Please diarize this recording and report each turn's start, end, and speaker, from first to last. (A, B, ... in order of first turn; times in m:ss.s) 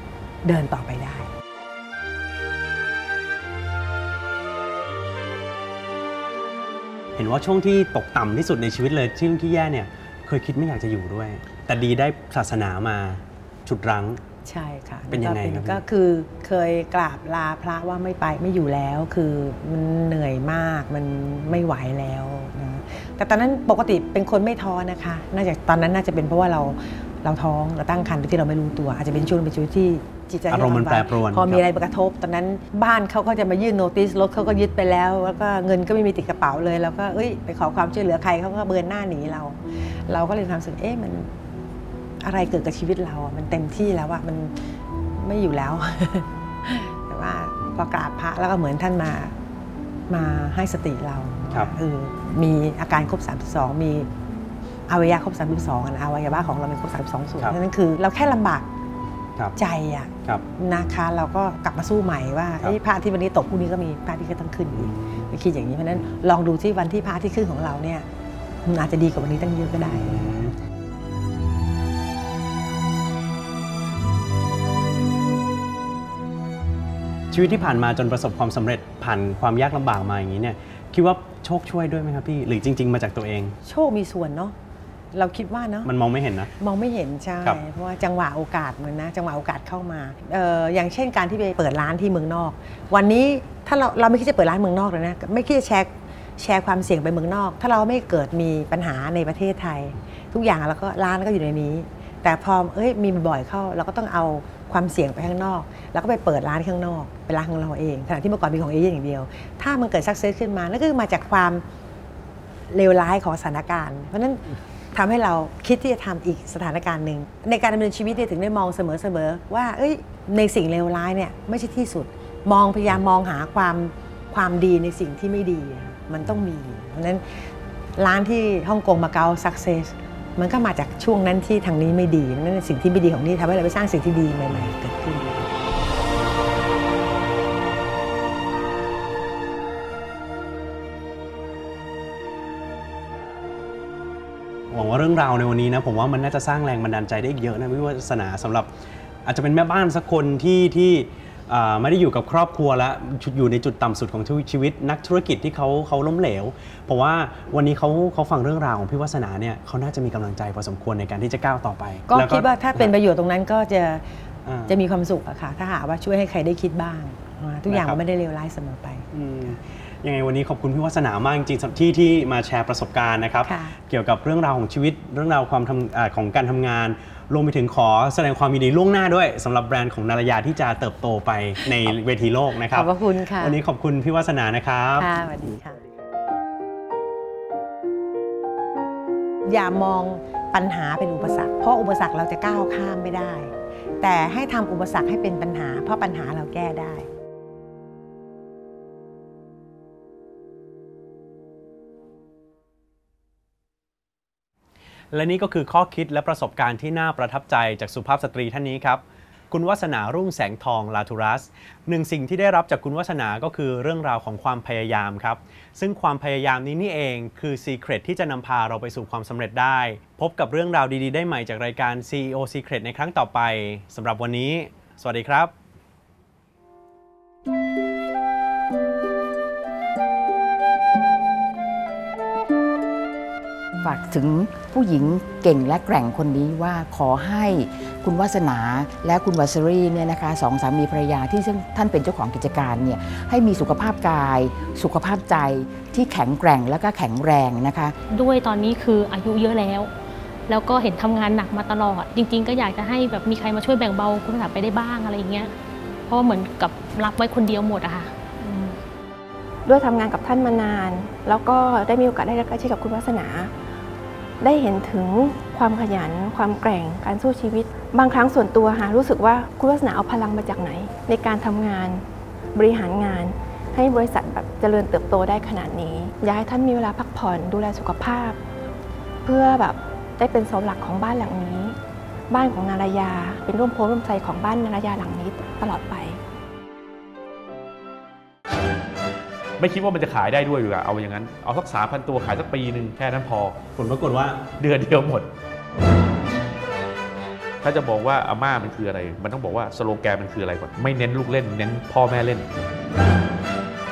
0:00.4-0:01.3 A
0:07.2-0:14.2 B
0:14.4-0:41.3 A
0:15.1-0:15.8 B
0:30.5-0:31.7 B
0:42.2-0:44.5 A
0:45.1-0:49.3 A
0:50.1-0:54.1 A
0:54.9-0:58.7 A
0:59.6-1:08.1 A
1:08.6-1:10.5 A
1:17.3-1:23.6 B
1:23.6-1:24.6 A
1:25.1-1:25.9 A
1:25.8-1:26.5 B
1:26.6-1:51.6 A
1:52.7-2:07.2 A
2:08.0-2:15.4 A
2:24.7-2:28.7 B
2:29.2-2:42.9 B
2:42.1-2:44.0 A
2:44.5-2:44.8 B
2:44.7-2:49.1 A
2:47.7-2:48.0 B
2:49.1-3:05.1 B
2:53.4-2:53.8 A
3:02.7-3:03.6 A
3:05.0-3:05.8 A
3:09.5-3:17.1 A
3:25.1-3:45.5 B
3:53.8-4:08.0 C
4:08.1-4:09.9 D
4:10.5-4:15.5 D
4:16.1-4:18.7 D
4:19.7-4:23.5 E
4:24.4-4:32.0 E
4:32.6-4:38.4 E
4:39.2-4:41.8 E
4:42.3-4:46.2 E
4:49.6-4:53.6 F
4:53.8-4:54.4 B
4:54.6-4:55.3 F
4:57.6-5:02.5 F